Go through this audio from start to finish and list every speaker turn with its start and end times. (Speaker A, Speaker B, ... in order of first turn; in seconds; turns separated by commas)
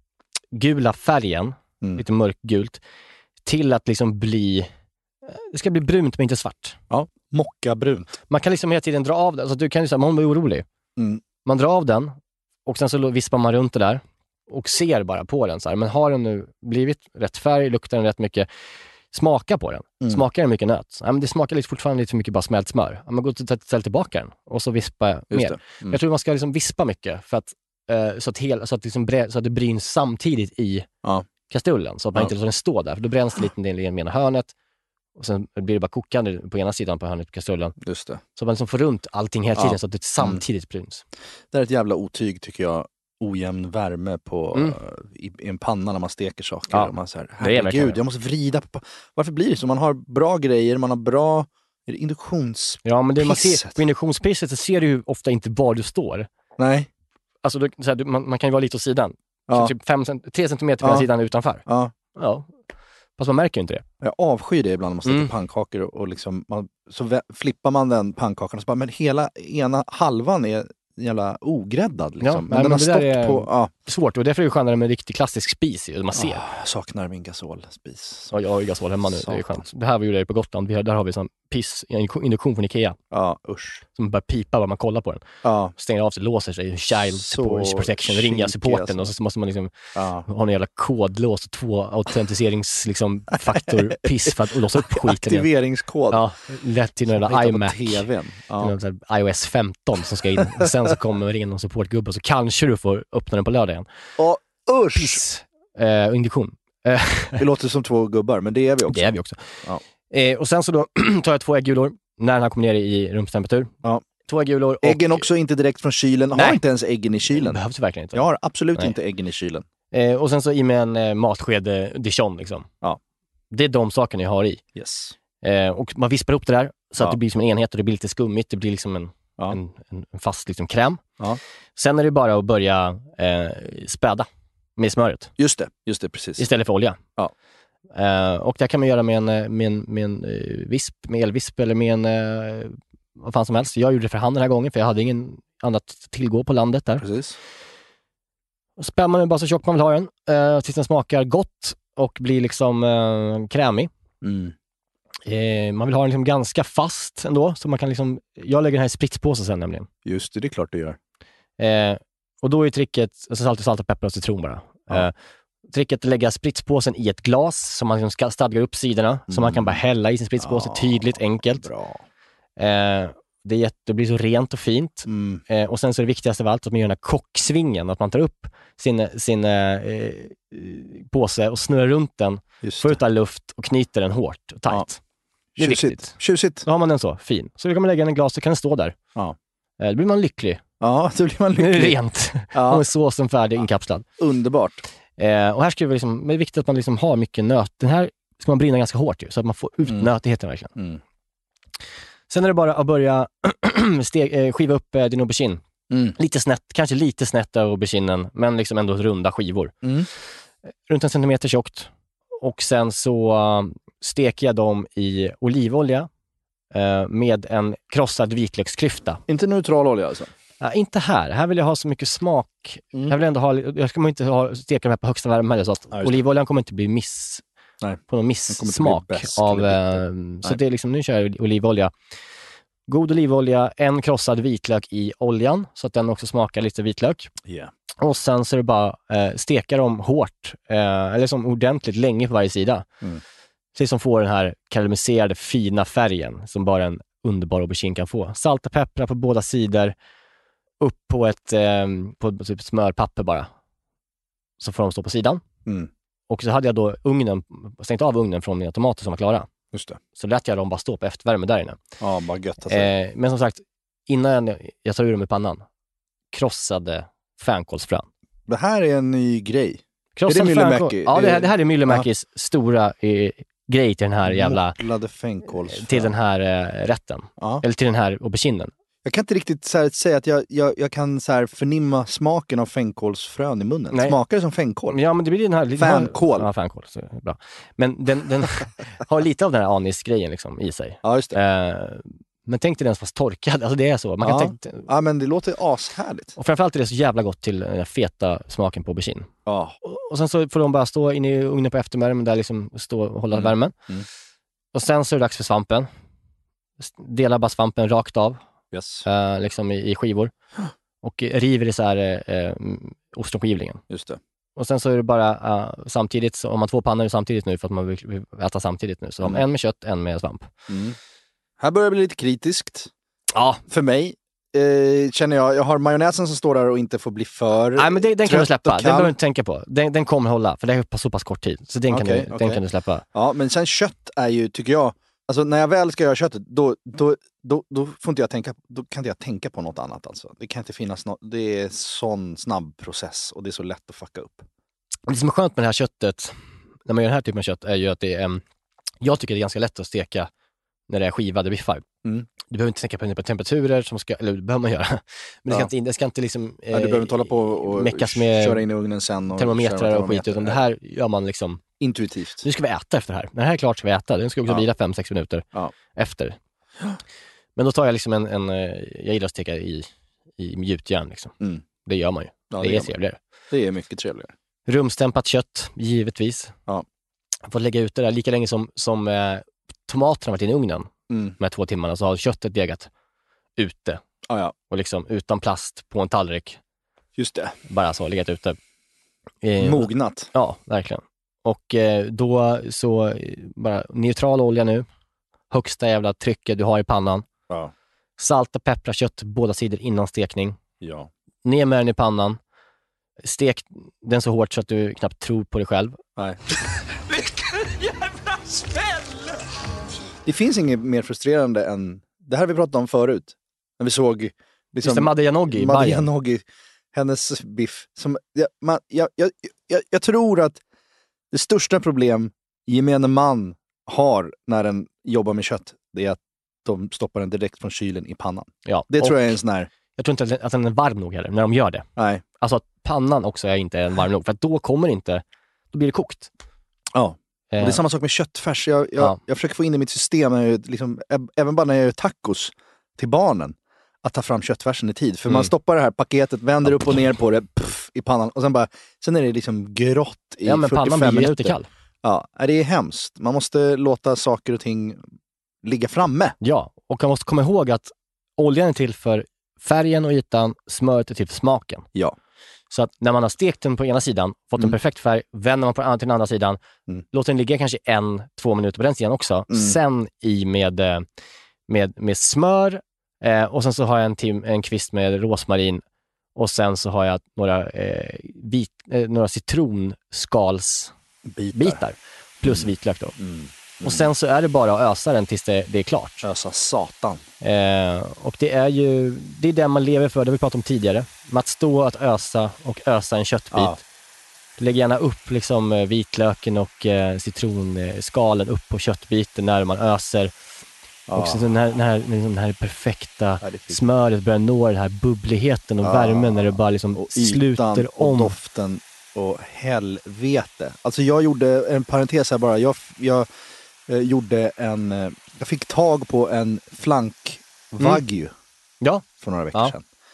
Speaker A: 0.5-2.8, Speaker A: 3.4-4.7, Speaker A: 5.3-6.8, Speaker B: 6.9-8.2, Speaker A: 8.3-10.7, Speaker B: 11.0-11.2, Speaker A: 11.4-12.2, Speaker A: 12.7-18.5, Speaker A: 19.1-30.9, Speaker B: 25.3-26.0, Speaker A: 31.5-34.5, Speaker A: 35.2-37.8, Speaker B: 37.8-38.2, Speaker A: 38.4-41.0, Speaker B: 39.6-40.4, Speaker B: 41.5-53.8, Speaker A: 46.7-48.0, Speaker A: 52.8-56.3, Speaker B: 56.6-56.9, Speaker A: 57.4-61.6, Speaker B: 59.5-59.7, Speaker B: 60.8-61.1, Speaker B: 61.7-61.9, Speaker A: 62.1-62.5, Speaker A: 63.2-63.9, Speaker B: 64.0-73.7, Speaker A: 65.1-65.3, Speaker A: 72.2-76.4, Speaker B: 76.2-78.3, Speaker A: 78.3-83.0, Speaker B: 79.0-79.6, Speaker B: 83.1-83.8, Speaker A: 84.0-85.2, Speaker B: 85.4-85.7, Speaker A: 85.8-89.7, Speaker B: 87.1-89.1, Speaker B: 90.0-90.3, Speaker A: 90.2-95.5, Speaker B: 93.5-96.2, Speaker A: 96.1-98.1, Speaker B: 97.1-98.7, Speaker A: 98.6-103.9, Speaker B: 104.2-105.2, Speaker A: 105.0-107.5, Speaker B: 107.4-109.1, Speaker A: 108.9-109.5, Speaker A: 110.1-113.7, Speaker A: 114.2-115.3, Speaker B: 114.8-117.6, Speaker A: 116.3-116.6, Speaker A: 117.3-118.2, Speaker B: 118.1-119.7, Speaker A: 119.9-122.7, Speaker A: 123.5-124.6, Speaker B: 124.8-125.2, Speaker A: 125.4-131.0, Speaker A: 131.8-135.3, Speaker B: 135.4-136.5, Speaker A: 136.4-137.0, Speaker A: 137.9-147.1, Speaker B: 147.0-147.4, Speaker A: 148.8-153.9, Speaker B: 154.2-154.5, Speaker A: 155.3-159.9, Speaker B: 160.1-161.0, Speaker A: 161.6-165.1, Speaker A: 165.7-171.7, Speaker B: 169.3-169.8, Speaker B: 170.4-172.0, Speaker A: 172.6-185.0, Speaker B: 175.1-175.4, Speaker B: 182.6-183.0, Speaker B: 185.6-186.7, Speaker A: 185.6-189.0, Speaker A: 189.8-190.6, Speaker B: 190.8-192.0, Speaker A: 191.6-194.1, Speaker B: 192.5-192.8, Speaker B: 194.2-194.8, Speaker A: 195.2-200.7, Speaker B: 200.8-201.0, Speaker A: 202.3-205.6, Speaker B: 205.9-206.2, Speaker A: 206.2-209.7, Speaker B: 209.8-210.1, Speaker A: 210.9-216.1, Speaker A: 216.7-219.2, Speaker B: 219.3-220.3, Speaker A: 220.6-227.4, Speaker B: 227.8-230.6, Speaker A: 228.1-231.9, Speaker A: 232.9-237.3, Speaker B: 237.4-237.7, Speaker A: 238.0-242.9, Speaker A: 243.8-249.9, Speaker A: 250.8-253.5, Speaker A: 254.6-255.4, Speaker A: 256.3-259.5, Speaker B: 259.7-260.0, Speaker A: 260.2-261.8, Speaker B: 262.0-262.9, Speaker A: 262.7-265.6, Speaker A: 266.3-268.1, Speaker B: 268.5-272.1, Speaker A: 270.2-274.8, Speaker B: 274.2-276.1, Speaker A: 275.7-278.7, Speaker B: 277.4-277.6, Speaker B: 279.1-285.0, Speaker A: 283.9-284.2, Speaker A: 284.9-294.9, Speaker B: 285.8-286.5, Speaker B: 291.0-291.4, Speaker B: 294.2-296.4, Speaker A: 296.4-299.3, Speaker B: 299.5-299.8, Speaker A: 299.8-303.7, Speaker B: 303.3-304.1, Speaker A: 304.7-305.9, Speaker A: 306.8-308.4, Speaker B: 308.7-309.1, Speaker A: 309.1-310.3, Speaker A: 311.0-313.8, Speaker B: 313.9-314.2, Speaker A: 314.6-320.5, Speaker B: 320.7-321.0, Speaker B: 321.6-322.9, Speaker A: 323.3-323.6, Speaker B: 323.7-329.1, Speaker A: 327.8-333.1, Speaker B: 331.9-332.6, Speaker B: 333.1-344.5, Speaker A: 345.1-348.4, Speaker A: 349.0-350.3, Speaker A: 350.9-351.9, Speaker A: 352.5-358.6, Speaker B: 356.7-360.6, Speaker A: 359.3-361.6, Speaker B: 361.8-362.4, Speaker A: 362.4-366.4, Speaker A: 367.6-373.2, Speaker B: 372.5-372.9, Speaker B: 373.5-374.3, Speaker A: 374.7-376.5, Speaker A: 377.5-382.9, Speaker B: 381.1-381.4, Speaker A: 383.6-384.0, Speaker B: 384.3-384.5, Speaker A: 384.7-386.6, Speaker B: 387.2-387.6, Speaker A: 387.7-388.6, Speaker A: 389.4-394.9, Speaker B: 389.6-390.3, Speaker A: 395.5-397.3, Speaker A: 398.2-400.6, Speaker B: 400.8-401.1, Speaker A: 401.4-402.4, Speaker A: 403.2-406.0, Speaker B: 410.2-420.6, Speaker A: 414.8-416.1, Speaker B: 421.3-429.7, Speaker A: 428.7-429.4, Speaker A: 429.9-431.9, Speaker B: 432.0-432.2, Speaker A: 432.4-436.3, Speaker B: 436.9-455.1, Speaker A: 437.5-437.8, Speaker A: 446.7-447.0, Speaker A: 450.4-451.7, Speaker B: 455.6-456.4, Speaker A: 456.4-461.9, Speaker A: 462.7-466.6, Speaker A: 467.1-471.1, Speaker B: 469.5-469.8, Speaker A: 471.7-475.8, Speaker A: 476.4-480.9, Speaker B: 481.3-481.8, Speaker A: 481.5-483.2, Speaker B: 482.4-484.1, Speaker A: 483.8-486.2, Speaker B: 486.2-487.2, Speaker A: 487.4-493.8, Speaker B: 493.5-493.8, Speaker A: 494.6-500.3, Speaker B: 501.1-501.5, Speaker A: 501.1-508.4, Speaker B: 503.4-503.8, Speaker B: 505.8-513.3, Speaker B: 513.9-518.3, Speaker A: 518.8-519.8, Speaker B: 519.2-519.8